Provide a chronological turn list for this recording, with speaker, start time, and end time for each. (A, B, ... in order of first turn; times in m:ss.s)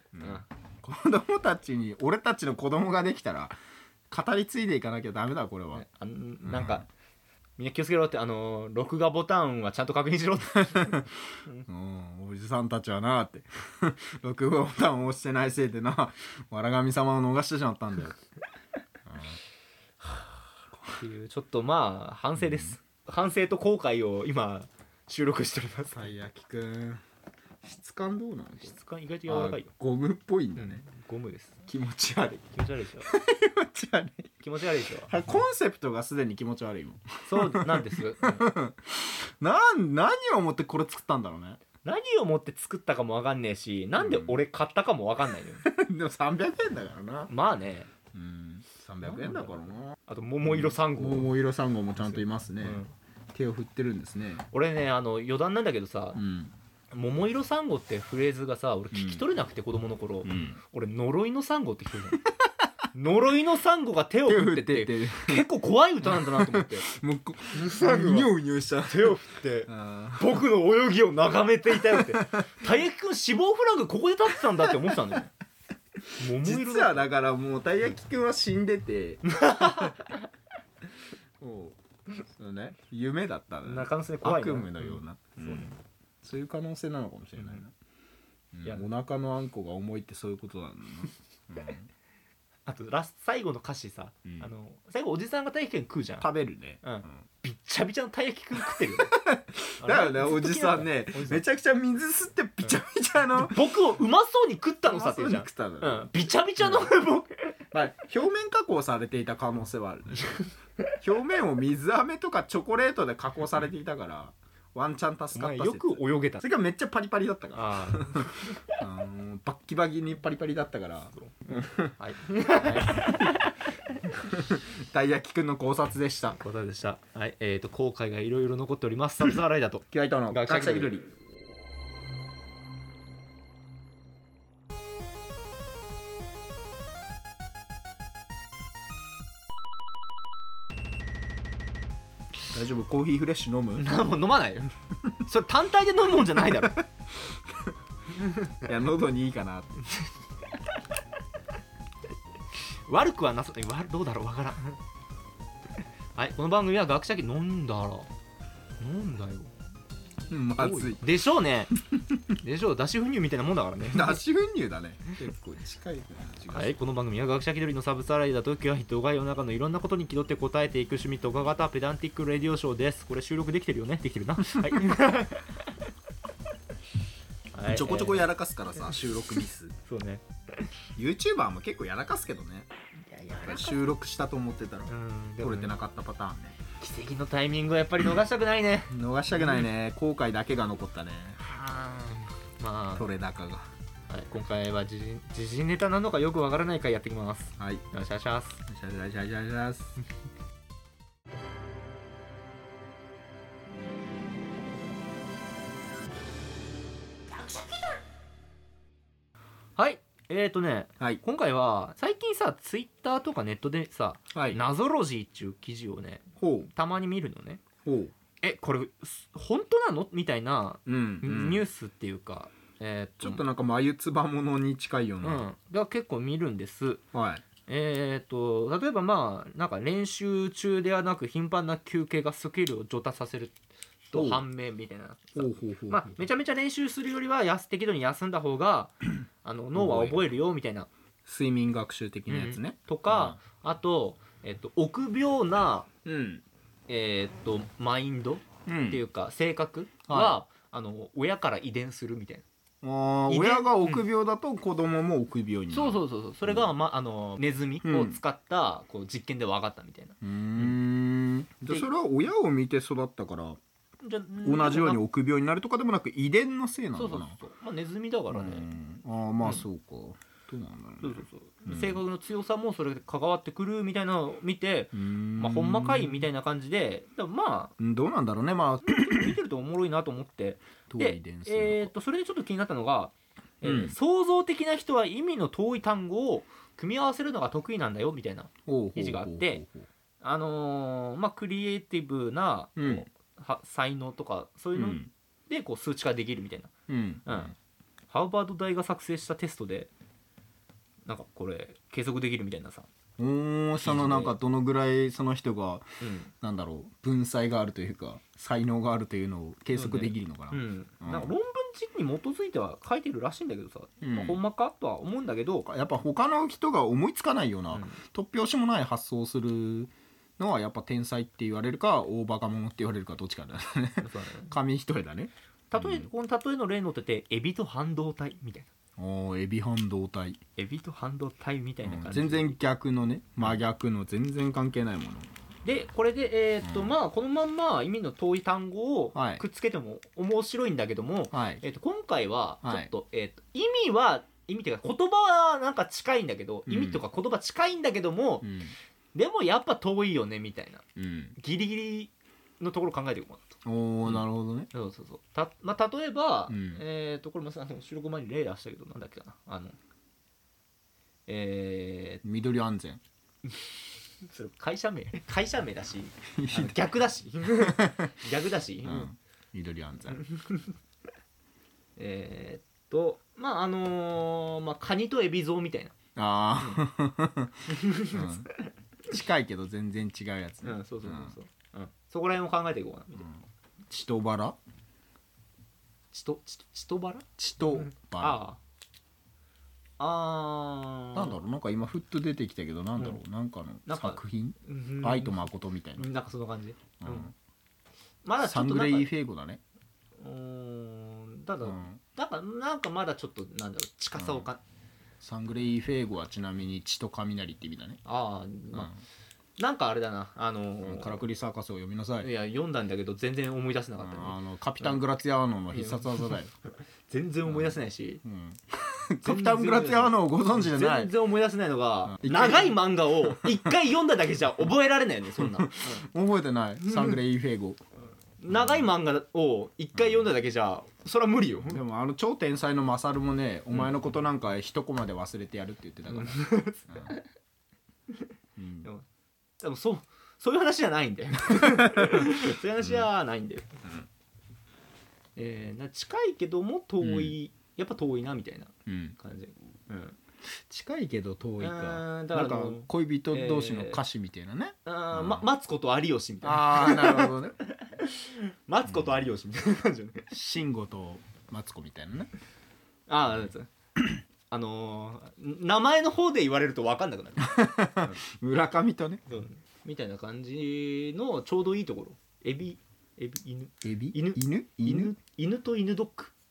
0:00.1-0:03.5 A
0:00.2-0:00.4 B
0:04.1-0:05.8 A
0:05.7-0:06.9 B
0:06.4-0:06.8 A
0:07.6-0:11.6 B
0:10.8-0:11.0 A
0:11.7-0:18.2 A
0:19.1-0:19.4 A
0:20.9-0:26.1 B
0:25.9-0:27.0 A
0:27.6-0:28.7 A
0:28.6-0:29.7 B
0:29.3-0:30.8 A
0:30.6-0:31.6 B
0:31.7-0:32.5 A
0:32.5-0:33.1 B
0:33.0-0:34.3 A
0:34.4-0:35.1 B
0:35.1-0:41.6 A
0:37.2-0:38.5 B
0:41.8-0:45.6 B
0:44.0-0:44.4 A
0:45.6-0:47.3 A
0:47.3-0:47.9 B
0:48.1-0:52.8 A
0:49.0-0:51.3 B
0:52.0-0:52.9 B
0:53.3-0:54.4 A
0:54.5-0:56.2 B
0:56.1-0:56.5 A
0:56.9-1:02.2 B
0:58.9-0:59.2 A
1:00.2-1:00.6 A
1:02.9-1:06.8 B
1:04.2-1:05.5 A
1:06.0-1:10.4 A
1:07.5-1:08.3 B
1:08.9-1:15.3 B
1:11.7-1:12.7 A
1:16.2-1:17.1 B
1:16.4-1:19.9 A
1:19.2-1:20.2 B
1:21.4-1:21.8 A
1:22.4-1:27.7 A
1:23.6-1:25.8 B
1:28.5-1:31.9 A
1:32.6-1:36.3 B
1:36.2-1:36.8 A
1:36.8-1:39.2 B
1:38.7-1:43.8 A
1:39.8-1:41.4 B
1:43.4-1:47.5 B
1:44.8-1:46.9 A
1:47.7-1:50.4 A
1:51.0-2:03.4 A
1:55.3-1:56.4 B
1:57.5-1:58.4 B
2:01.2-2:03.5 B
2:04.2-2:06.4 A
2:06.4-2:10.9 B
2:09.9-2:11.0 A
2:22.5-2:23.8 A
2:23.8-2:26.8 B
2:28.6-2:29.8 A
2:32.9-2:34.8 B
2:36.1-2:38.1 B
2:38.8-2:39.5 B
2:40.3-2:41.0 A
2:40.6-2:41.7 B
2:41.9-2:42.2 A
2:42.3-2:44.2 B
2:43.9-2:46.8 A
2:46.5-2:55.6 B
2:57.5-2:58.3 B
2:57.6-2:59.7 A
2:59.8-3:00.7 B
3:01.0-3:02.7 A
3:03.0-3:03.9 B
3:03.4-3:06.6 A
3:04.9-3:05.7 B
3:06.8-3:09.6 B
3:08.9-3:11.4 A
3:11.4-3:13.1 B
3:12.9-3:13.6 A
3:14.1-3:18.6 B
3:17.6-3:17.8 A
3:18.7-3:20.0 A
3:29.8-3:37.6 B
3:34.3-3:34.6 A
3:36.4-3:36.7 A
3:37.8-3:38.1 A
3:38.4-3:43.4 B
3:40.8-3:41.6 A
3:43.2-3:45.4 A
3:45.2-3:47.0 B
3:47.1-3:47.4 A
3:47.6-3:53.5 B
3:54.1-4:00.9 B
3:54.1-3:54.4 A
3:55.4-3:56.2 A
3:59.7-4:00.3 A
4:01.2-4:03.4 A
4:02.3-4:05.9 B
4:06.0-4:06.4 A
4:06.9-4:12.4 B
4:08.6-4:09.0 A
4:10.1-4:10.4 A
4:12.8-4:16.7 A
4:13.3-4:14.0 B
4:15.7-4:20.8 B
4:17.8-4:18.2 A
4:20.2-4:23.6 A
4:24.0-4:25.0 B
4:24.4-4:27.4 A
4:26.9-4:28.7 B
4:28.3-4:32.0 A
4:31.0-4:37.7 B
4:34.9-4:36.2 A
4:37.8-4:39.3 A
4:38.8-4:49.6 B
4:40.9-4:41.9 A
4:43.6-4:44.0 A
4:48.6-4:49.9 A
4:50.2-4:56.7 B
4:52.8-4:53.0 A
4:54.7-4:55.1 A
4:56.9-4:57.5 A
4:57.2-4:57.5 B
4:58.1-4:59.9 B
5:01.0-5:02.9 B
5:03.2-5:11.3 A
5:03.8-5:04.3 B
5:06.0-5:06.3 B
5:09.7-5:15.7 B
5:14.0-5:14.4 A
5:15.7-5:26.1 A
5:17.7-5:18.0 B
5:24.0-5:24.5 B
5:25.7-5:28.7 B
5:29.0-5:30.4 A
5:30.6-5:32.6 B
5:31.8-5:35.3 A
5:35.6-5:48.6 B
5:36.6-5:36.9 A
5:39.1-5:39.4 A
5:41.3-5:41.6 A
5:42.6-5:42.9 A
5:46.7-5:47.0 A
5:48.4-5:48.7 A
5:49.1-5:50.8 B
5:51.0-5:51.3 A
5:51.4-5:53.5 B
5:53.6-5:54.7 A
5:54.0-5:59.8 B
5:56.5-5:56.8 A
6:01.3-6:02.2 B
6:02.2-6:03.0 A
6:04.2-6:09.1 B
6:06.4-6:06.8 A
6:07.5-6:08.1 A
6:08.8-6:10.2 A
6:10.4-6:10.7 B
6:12.0-6:16.0 B
6:16.2-6:18.5 A
6:17.7-6:18.3 B
6:19.1-6:21.3 A
6:20.6-6:23.3 B
6:23.2-6:24.6 A
6:26.1-6:27.2 B
6:27.4-6:28.4 A
6:28.2-6:28.6 B
6:30.0-6:31.4 B
6:31.1-6:36.0 A
6:33.9-6:35.4 B
6:36.0-6:37.3 B
6:37.0-6:37.3 A
6:38.2-6:39.1 B
6:38.4-6:39.6 A
6:40.2-6:44.6 B
6:41.6-6:42.0 A
6:44.2-6:44.5 A
6:45.2-6:48.0 A
6:48.0-6:48.9 B
6:48.7-6:49.0 A
6:49.6-6:51.2 B
6:50.8-6:52.3 A
6:52.2-6:55.0 B
6:54.0-6:56.5 A
6:55.7-6:56.4 B
6:57.1-6:58.2 B
6:57.4-7:01.1 A
6:59.2-7:06.0 B
7:02.1-7:03.7 A
7:05.4-7:07.8 A
7:06.8-7:07.2 B
7:08.4-7:11.8 B
7:08.5-7:08.9 A
7:10.0-7:10.2 A
7:11.7-7:17.1 A
7:16.1-7:17.2 B
7:18.6-7:18.9 A
7:19.6-7:23.8 B
7:21.6-7:23.1 A
7:25.4-7:30.2 B
7:27.0-7:27.3 A
7:28.8-7:29.2 A
7:30.5-7:35.4 A
7:31.6-7:34.0 B
7:34.8-7:40.3 B
7:36.4-7:37.6 A
7:40.3-7:42.3 A
7:43.1-7:43.7 B
7:44.5-7:48.2 B
7:47.4-7:49.2 A
7:49.3-7:56.3 B
7:53.8-7:55.1 A